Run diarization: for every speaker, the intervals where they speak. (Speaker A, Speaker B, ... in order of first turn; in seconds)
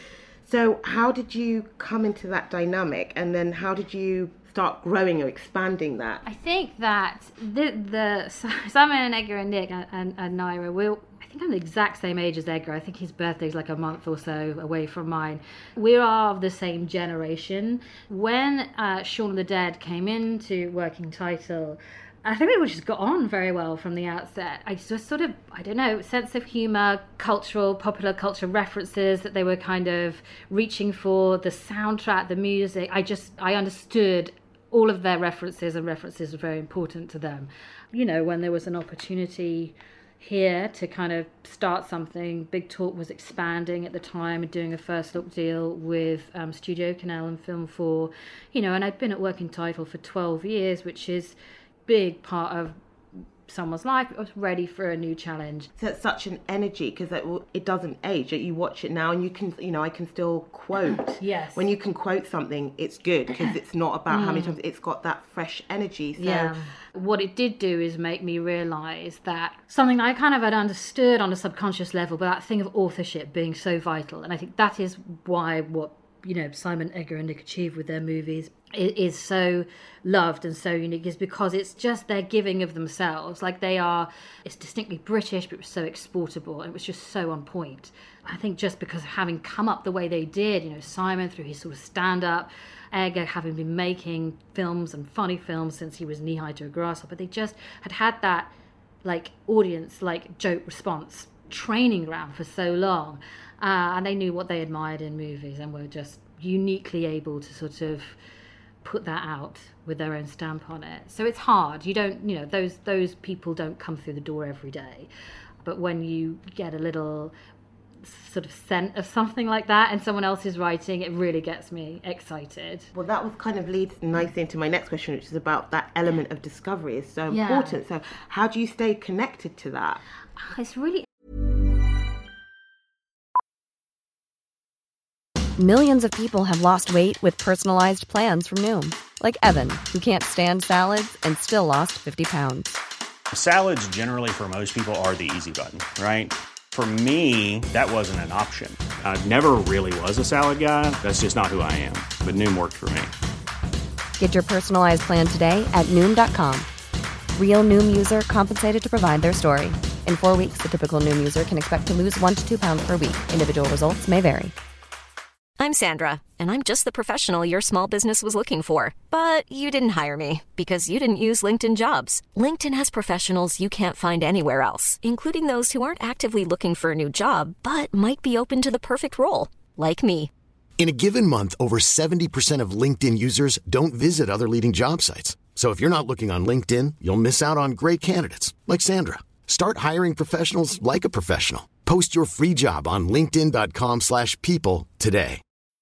Speaker A: 0.4-6.2, 55.8-66.5, 122.9-130.0
Speaker B: 6.2-55.7, 61.2-61.6, 64.1-64.6, 66.2-98.5, 99.0-108.2, 108.8-115.1, 115.6-117.3, 118.0-122.9, 127.3-127.8, 130.4-131.1
Speaker C: 135.6-142.8, 154.2-156.7, 157.3-164.5
Speaker D: 143.3-153.1
Speaker E: 165.6-180.3
Speaker F: 180.8-195.4